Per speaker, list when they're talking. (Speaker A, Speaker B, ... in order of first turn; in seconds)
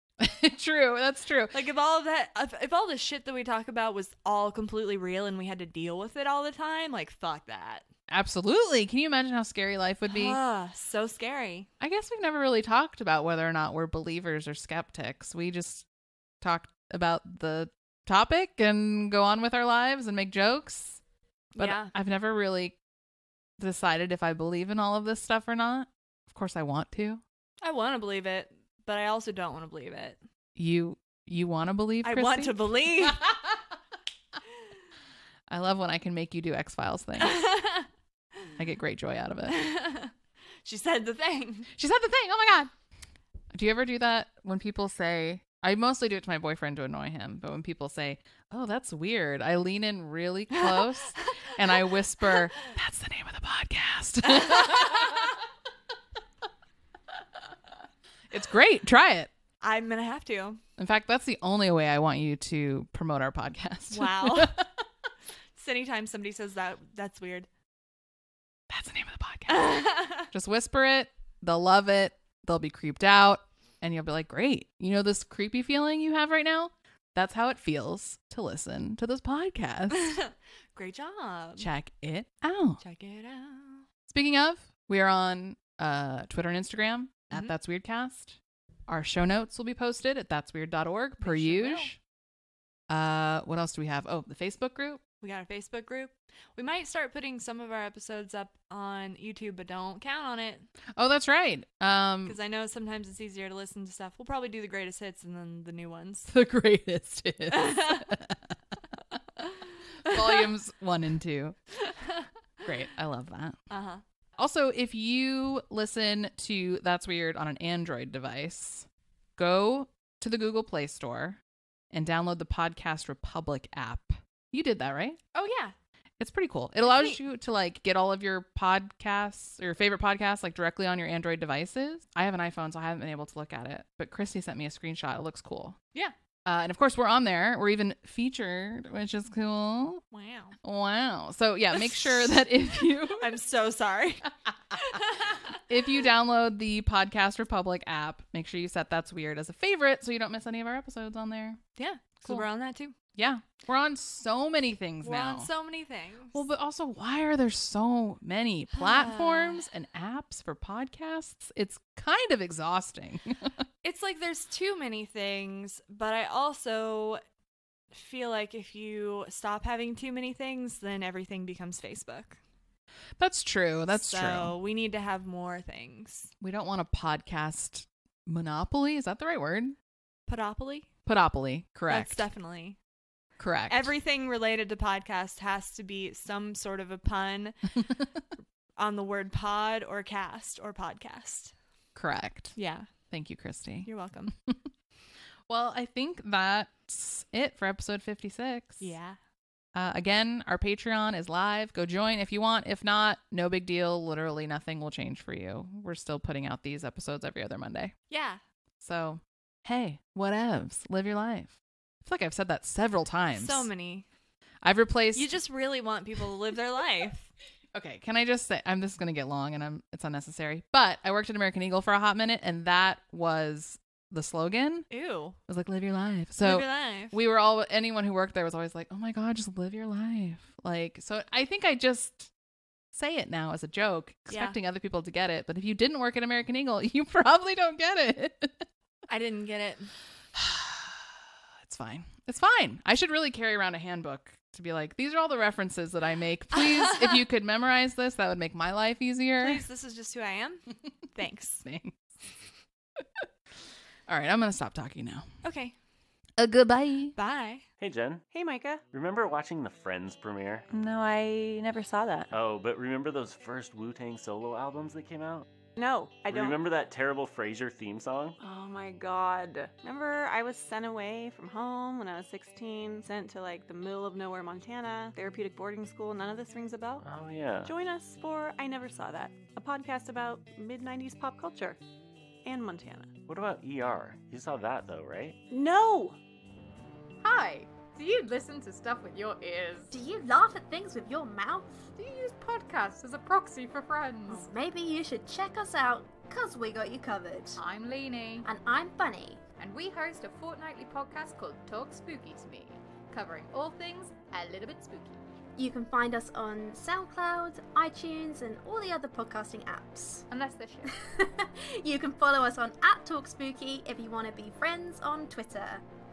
Speaker A: 0.2-1.6, 8.1-10.4, 11.8-15.9, 16.4-21.0, 21.6-22.8, 23.6-27.2, 30.6-33.1, 35.5-37.4, 38.6-39.6, 41.7-42.7, 43.5-55.3, 58.3-59.3, 60.8-64.6, 68.7-80.2, 81.6-82.8, 84.1-92.0, 92.9-95.0, 101.0-102.4, 106.3-108.5, 110.0-111.6, 112.6-113.6, 114.4-125.2, 126.2-135.8, 136.4-140.0, 140.6-143.3, 145.7-151.6, 153.2-155.5, 156.3-163.5, 173.2-174.6, 176.4-179.8, 181.1-182.3, 183.4-183.9, 191.9-192.6, 193.1-194.6, 195.5-198.9, 199.7-207.9, 208.8-213.7, 214.6-215.3, 217.7-224.9, 225.5-232.3, 232.9-238.6, 240.3-241.1, 241.6-249.6, 251.6-252.1, 253.0-253.2, 254.1-255.3, 256.4-257.2, 260.7-262.3
Speaker B: 1.5-7.8, 10.1-11.7, 21.5-21.9, 27.6-30.2, 32.0-33.2, 37.2-37.9, 39.5-40.1, 40.6-41.7, 54.3-55.2, 59.6-60.6, 63.9-64.6, 65.6-67.5, 69.5-70.3, 79.9-81.7, 82.8-83.9, 91.2-91.9, 95.2-100.7, 102.2-106.3, 107.5-108.1, 110.1-110.3, 111.9-112.7, 113.7-114.0, 125.3-125.7, 126.8-127.2, 140.1-140.6, 141.8-142.3, 143.1-145.5, 151.8-152.9, 155.0-156.4, 158.7-159.7, 163.8-167.2, 167.9-172.4, 173.9-176.3, 180.3-180.9, 181.9-182.8, 183.7-187.6, 188.8-191.5, 192.6-192.9, 193.8-194.3, 198.8-199.2, 208.1-208.4, 213.3-214.1, 215.1-217.3, 224.9-225.4, 226.4-227.1, 234.3-234.6, 239.1-239.9, 246.6-247.2, 249.4-251.6, 255.4-255.8, 257.2-257.6
Speaker C: 257.8-258.3, 258.8-260.7, 262.3-265.5, 266.3-268.4, 277.0-277.7, 283.2-285.4
Speaker D: 258.3-258.9, 265.8-266.6, 268.4-277.1, 277.6-281.8, 282.4-283.2, 285.5-286.2
Speaker E: 287.2-289.9, 292.0-294.5, 297.6-298.5, 299.6-305.2, 310.3-310.9
Speaker F: 289.9-291.9, 294.3-297.6, 298.4-299.4, 305.6-310.3, 311.0-315.8